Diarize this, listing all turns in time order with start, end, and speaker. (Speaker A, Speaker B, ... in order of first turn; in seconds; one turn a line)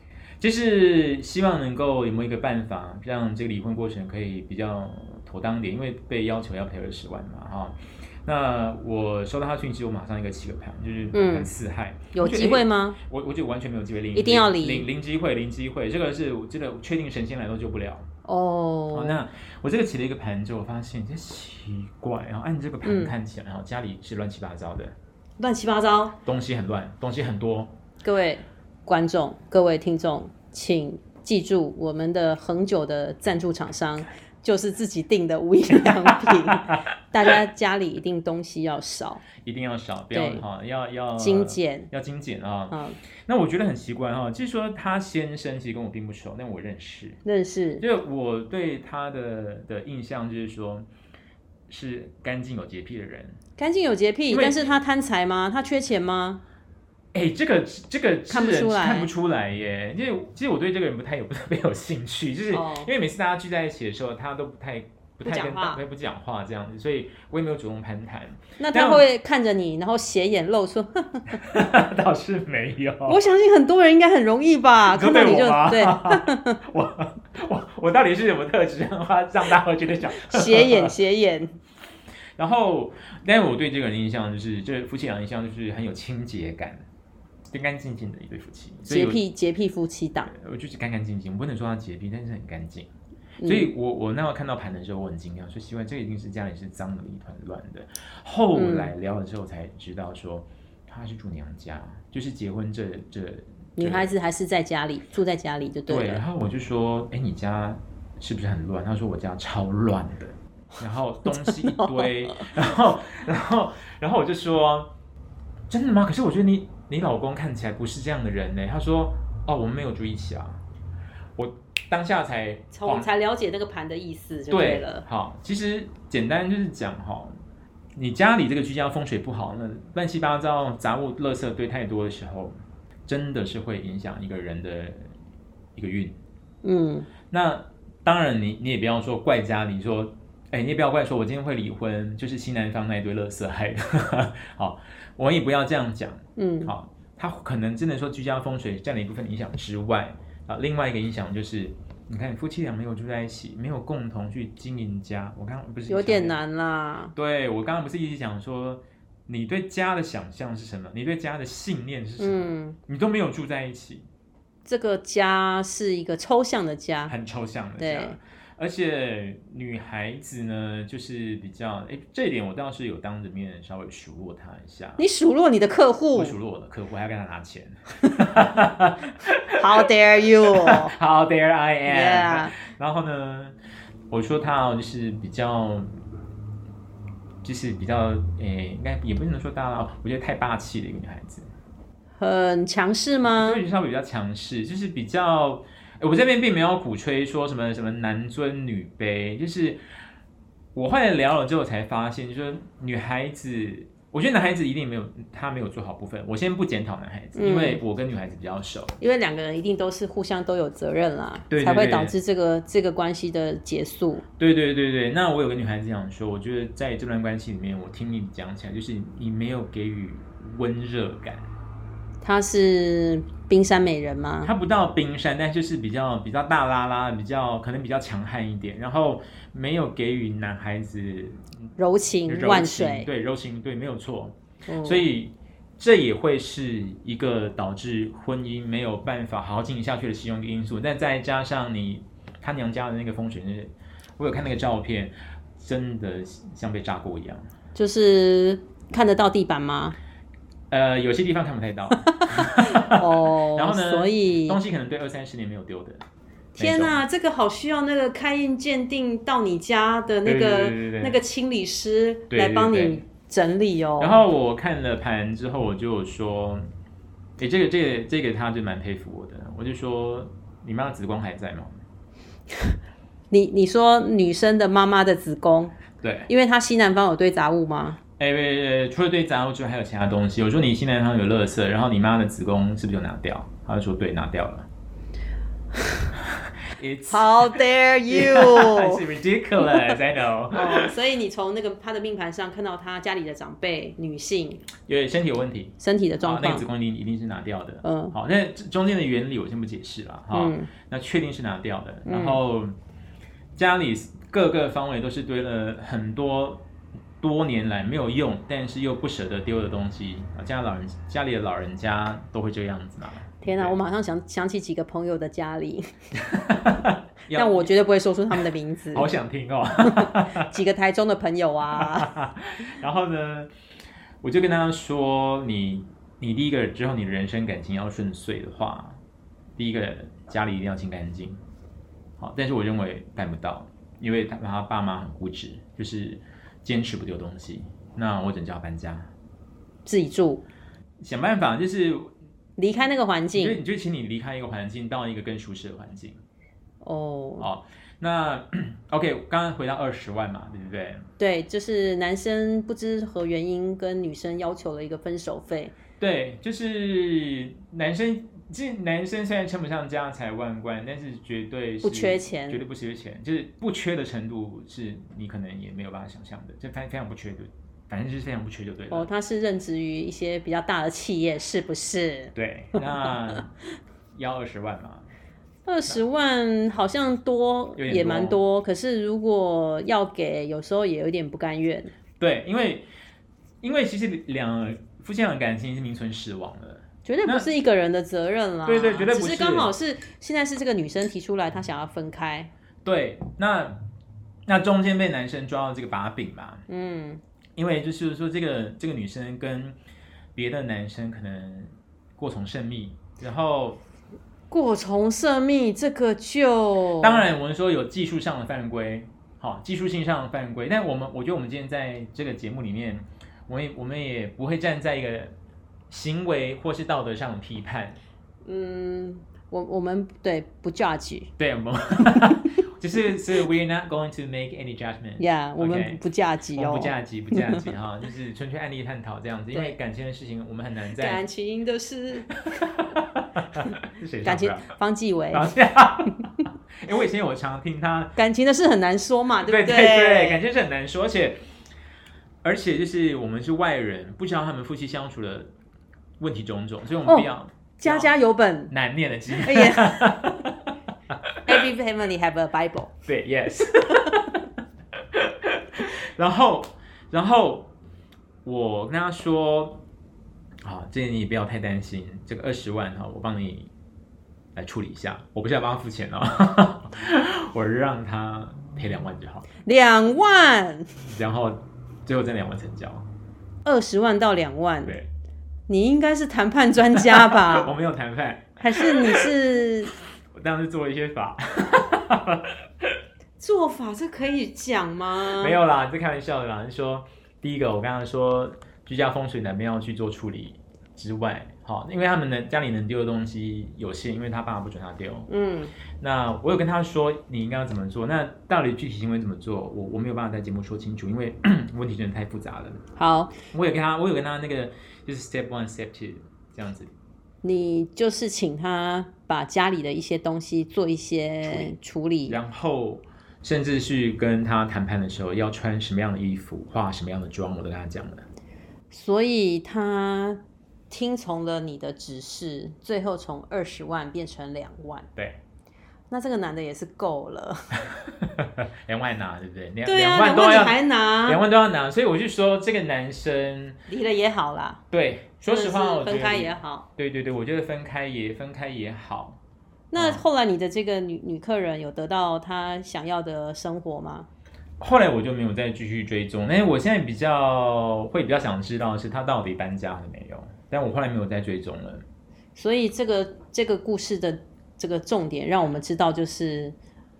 Speaker A: 0.4-18.1
Speaker B: 11.1-11.5
Speaker B: 12.1-13.0
Speaker B: 14.1-14.9
Speaker B: 18.2-19.2
Speaker A: 18.9-24.9
Speaker B: 22.8-23.1
Speaker B: 25.4-26.2
Speaker A: 26.2-27.7
Speaker B: 28.0-39.2
Speaker A: 35.8-36.8
Speaker A: 39.4-47.2
Speaker B: 40.1-40.4
Speaker B: 41.2-41.9
Speaker B: 42.7-43.0
Speaker B: 47.2-47.8
Speaker A: 47.8-50.8
Speaker A: 51.7-53.4
Speaker B: 53.6-56.4
Speaker A: 54.3-54.8
Speaker A: 57.1-69.0
Speaker B: 58.3-59.1
Speaker B: 62.5-62.9
Speaker B: 65.2-65.8
Speaker B: 68.6-71.4
Speaker A: 71.3-73.2
Speaker B: 73.0-76.6
Speaker A: 74.9-80.9
Speaker B: 80.2-81.6
Speaker A: 82.4-86.8
Speaker A: 87.5-89.2
Speaker B: 88.9-90.3
Speaker A: 90.3-92.9
Speaker B: 93.4-93.7
Speaker A: 93.4-104.1
Speaker B: 98.5-98.9
Speaker B: 103.8-106.2
Speaker A: 105.9-114.9
Speaker B: 111.3-112.4
Speaker A: 115.7-120.6
Speaker A: 121.3-123.1
Speaker B: 122.7-125.0
Speaker A: 124.5-127.3
Speaker A: 127.9-135.1
Speaker A: 135.8-136.2
Speaker B: 136.6-137.1
Speaker A: 137.3-156.4
Speaker B: 146.3-146.7
Speaker B: 155.9-157.1
Speaker A: 157.1-164.1
Speaker B: 162.2-162.8
Speaker B: 164.6-167.1
Speaker A: 167.1-175.0
Speaker B: 167.8-168.2
Speaker B: 175.0-176.3
Speaker A: 176.1-179.7
Speaker B: 179.6-180.9
Speaker A: 180.4-183.6
Speaker B: 181.9-182.5
Speaker A: 184.1-185.9
Speaker A: 187.4-191.5
Speaker B: 192.2-193.6
Speaker A: 193.3-199.8
Speaker A: 200.7-209.0
Speaker B: 207.3-207.8
Speaker B: 209.0-214.2
Speaker A: 211.5-212.1
Speaker A: 214.4-221.5
Speaker B: 222.2-224.5
Speaker A: 224.4-231.6
Speaker B: 231.8-233.1
Speaker A: 232.2-247.5
Speaker B: 234.7-235.1
Speaker B: 247.7-250.0
Speaker A: 250.7-256.0
Speaker B: 252.1-254.6
Speaker A: 256.6-257.0
Speaker B: 256.6-264.2
Speaker A: 260.2-261.2
Speaker A: 262.3-263.0
Speaker A: 264.0-266.7
Speaker A: 267.4-271.8
Speaker B: 273.3-275.8
Speaker A: 276.0-276.3
Speaker B: 276.3-278.0
Speaker A: 278.2-284.7
Speaker A: 286.7-290.9
Speaker B: 287.1-289.0
Speaker B: 290.5-294.6
Speaker A: 294.8-302.8
Speaker B: 295.8-296.6
Speaker B: 297.8-298.1
Speaker B: 300.3-300.7
Speaker B: 302.1-302.4
Speaker A: 303.5-306.6
Speaker A: 307.2-313.7
Speaker B: 313.4-315.9
Speaker A: 316.2-317.7
Speaker B: 317.3-319.1
Speaker A: 318.9-320.5
Speaker B: 319.8-322.1
Speaker A: 321.7-323.5
Speaker A: 324.2-329.0
Speaker A: 329.6-331.4
Speaker A: 332.2-339.1
Speaker B: 339.9-340.4
Speaker A: 341.0-342.1
Speaker B: 342.6-343.6
Speaker A: 343.3-346.2
Speaker B: 346.8-347.5
Speaker A: 347.4-351.1
Speaker B: 351.2-355.7
Speaker A: 356.0-369.1
Speaker B: 361.8-362.6
Speaker B: 368.9-372.8
Speaker A: 372.3-373.5
Speaker A: 374.1-375.1
Speaker B: 375.6-381.9
Speaker A: 377.8-378.4
Speaker A: 382.2-382.9
Speaker A: 383.6-387.5
Speaker B: 387.1-392.5
Speaker A: 388.6-389.7
Speaker A: 392.8-393.8
Speaker A: 394.4-396.6
Speaker B: 396.7-397.2
Speaker A: 397.6-399.8
Speaker A: 400.3-403.8
Speaker B: 404.5-407.3
Speaker A: 407.0-415.3
Speaker A: 415.9-418.0
Speaker B: 418.4-421.3
Speaker A: 421.4-426.0
Speaker B: 425.2-427.6
Speaker A: 426.5-431.2
Speaker B: 431.0-432.6
Speaker A: 432.5-434.7
Speaker B: 434.2-435.5
Speaker A: 435.3-438.1
Speaker B: 438.1-440.4
Speaker A: 439.4-441.4
Speaker A: 442.4-445.5
Speaker A: 446.2-448.1
Speaker B: 447.1-448.7
Speaker A: 448.7-451.6
Speaker B: 449.3-450.3
Speaker B: 451.4-452.9
Speaker A: 453.1-454.4
Speaker A: 455.1-457.7
Speaker A: 458.4-459.8
Speaker A: 460.6-463.7
Speaker A: 464.5-469.5
Speaker B: 469.6-471.0
Speaker A: 471.0-473.1
Speaker B: 473.6-475.0
Speaker B: 475.7-477.7
Speaker A: 476.9-479.3
Speaker B: 478.6-479.9
Speaker A: 480.3-483.0
Speaker B: 483.4-485.6
Speaker A: 485.3-495.3
Speaker B: 495.3-495.7
Speaker A: 496.0-502.8
Speaker B: 502.9-503.4
Speaker A: 503.5-506.9
Speaker B: 507.4-512.4
Speaker A: 511.5-511.7
Speaker A: 512.3-518.2
Speaker B: 518.9-525.1
Speaker B: 526.1-527.7
Speaker A: 527.9-533.8
Speaker B: 529.8-531.4
Speaker B: 533.9-534.8
Speaker A: 534.9-539.4
Speaker B: 535.4-536.9
Speaker B: 539.9-544.3
Speaker A: 539.9-540.2
Speaker A: 544.8-552.0
Speaker B: 552.5-556.8